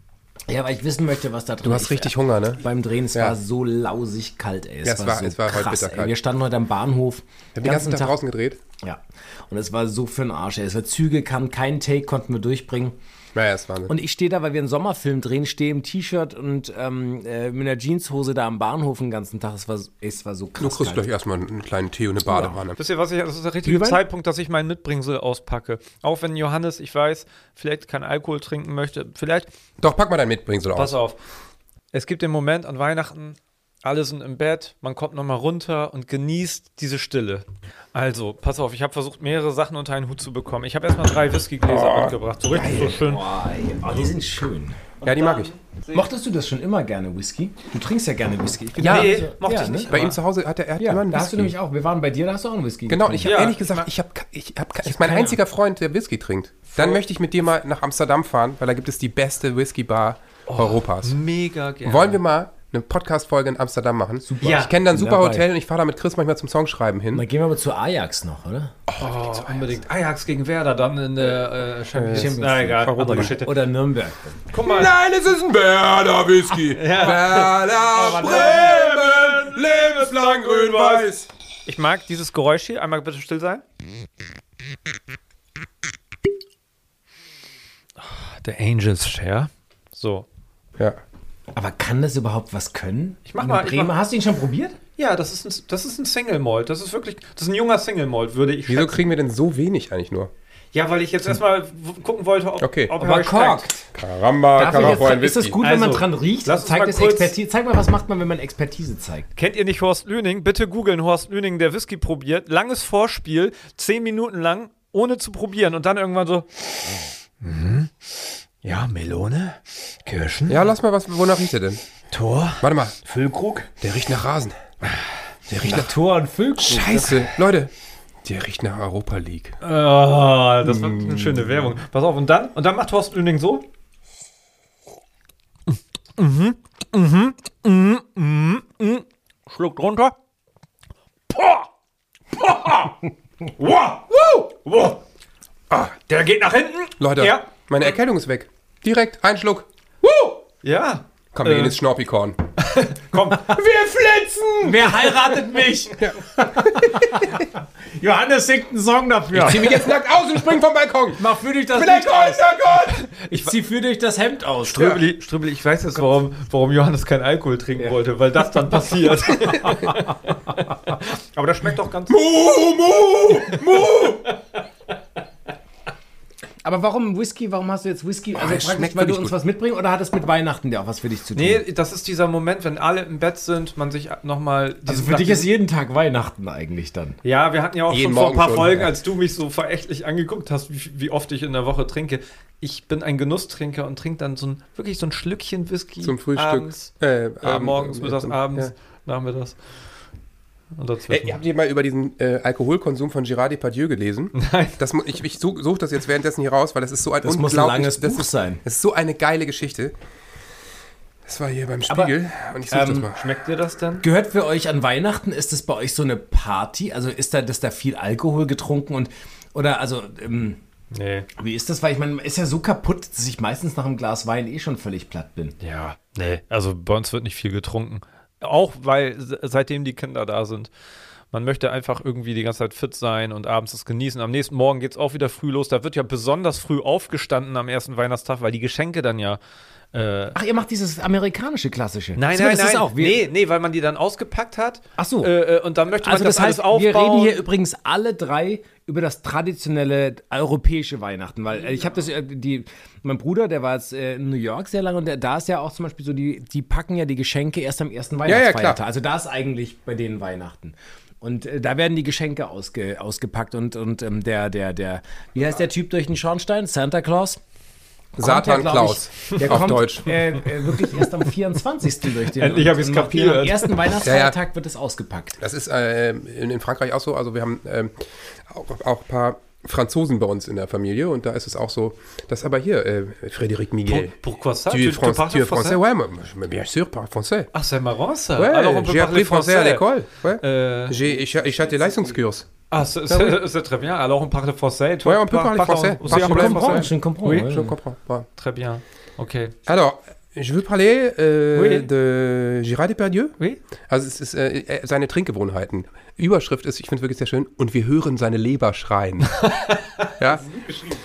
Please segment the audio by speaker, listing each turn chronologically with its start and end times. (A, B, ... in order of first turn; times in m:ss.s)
0:00.5-0:08.2 A
0:01.6-0:02.6 B
0:04.8-0:06.1 B
0:07.6-0:08.6 B
0:08.8-0:13.0 A
0:13.4-0:13.9 B
0:13.9-0:21.1 A
0:20.6-0:22.8 B
0:22.8-0:29.5 C
0:23.6-0:24.0 A
0:29.8-0:31.0 B
0:30.8-0:31.2 C
0:31.9-0:43.2 C
0:41.6-0:43.0 B
0:42.6-0:44.9 A
0:45.0-0:46.0 C
0:45.0-0:45.5 B
0:45.9-0:49.9 A
0:48.8-0:49.2 B
0:48.8-0:50.2 C
0:49.9-0:51.5 B
0:50.8-0:53.4 A
0:52.9-1:01.2 B
0:53.2-0:53.9 C
0:54.8-0:55.4 A
0:56.8-0:57.0 C
1:00.5-1:02.2 C
1:01.8-1:07.2 B
1:04.3-1:05.5 A
1:04.4-1:04.7 C
1:07.1-1:08.8 A
1:08.9-1:09.8 B
1:09.0-1:13.6 C
1:12.0-1:13.4 B
1:12.1-1:14.4 A
1:14.5-1:14.9 C
1:14.6-1:21.3 B
1:16.7-1:23.6 C
1:17.9-1:19.0 A
1:28.0-1:30.3 C
1:31.5-1:34.8 A
1:33.3-1:33.9 C
1:35.0-1:39.0 C
1:38.7-1:40.3 B
1:40.7-1:43.7 C
1:42.6-1:42.9 B
1:43.0-1:43.9 A
1:43.9-1:45.6 B
1:44.6-1:49.3 A
1:44.7-1:45.0 C
1:45.6-1:47.4 C
1:49.4-1:56.9 C
1:57.4-1:58.1 C
1:58.6-2:00.6 C
2:00.5-2:01.8 B
2:02.1-2:02.6 C
2:02.6-2:03.0 B
2:03.1-2:03.7 A
2:03.8-2:04.6 B
2:05.5-2:05.9 B
2:05.6-2:07.3 A
2:06.6-2:07.7 B
2:08.2-2:09.6 B
2:09.6-2:13.7 C
2:10.9-2:11.2 B
2:15.7-2:20.2 C
2:21.3-2:21.7 C
2:22.4-2:25.0 C
2:25.9-2:27.5 C
2:27.0-2:29.7 B
2:30.6-2:31.8 C
2:31.3-2:32.4 B
2:32.6-2:33.7 C
2:33.5-2:34.9 B
2:34.6-2:39.9 A
2:36.0-2:37.3 B
2:39.3-2:41.2 B
2:41.2-2:42.5 A
2:41.7-2:43.1 B
2:43.3-2:45.0 A
2:44.7-2:52.2 C
2:52.1-2:54.3 B
2:53.5-2:54.3 C
2:56.6-3:01.6 A
2:58.4-2:59.4 B
3:01.4-3:05.5 C
3:04.9-3:07.2 A
3:07.2-3:16.9 C
3:07.9-3:08.9 B
3:16.0-3:18.7 B
3:17.4-3:19.6 C
3:20.8-3:21.4 C
3:21.1-3:29.9 B
3:24.4-3:24.8 C
3:27.2-3:28.6 A
3:31.3-3:33.2 B
3:32.7-3:33.1 A
3:33.1-3:34.0 C
3:34.0-3:40.6 A
3:40.9-3:41.3 C
3:41.4-3:45.6 A
3:45.6-3:50.7 C
3:51.3-3:59.4 C
3:59.9-4:00.4 C
4:00.4-4:03.2 A
4:02.2-4:07.4 C
4:05.0-4:05.3 A
4:06.0-4:27.4 A
4:18.3-4:18.8 B
4:28.2-4:30.2 B
4:28.2-4:35.4 A
4:32.2-4:33.9 C
4:34.0-4:34.4 B
4:35.4-4:44.2 B
4:43.9-4:45.8 C
4:44.7-4:47.5 B
4:47.5-4:49.9 C
4:48.4-4:52.5 B
4:50.4-4:51.0 C
4:51.3-4:52.1 A
4:52.7-4:57.5 C
4:53.1-4:53.4 B
4:55.0-4:58.3 B
4:56.0-4:57.8 A
4:58.4-4:59.6 C
4:59.7-5:03.4 B
5:01.6-5:01.9 C
5:03.9-5:09.4 B
5:09.3-5:10.1 C
5:10.2-5:10.5 B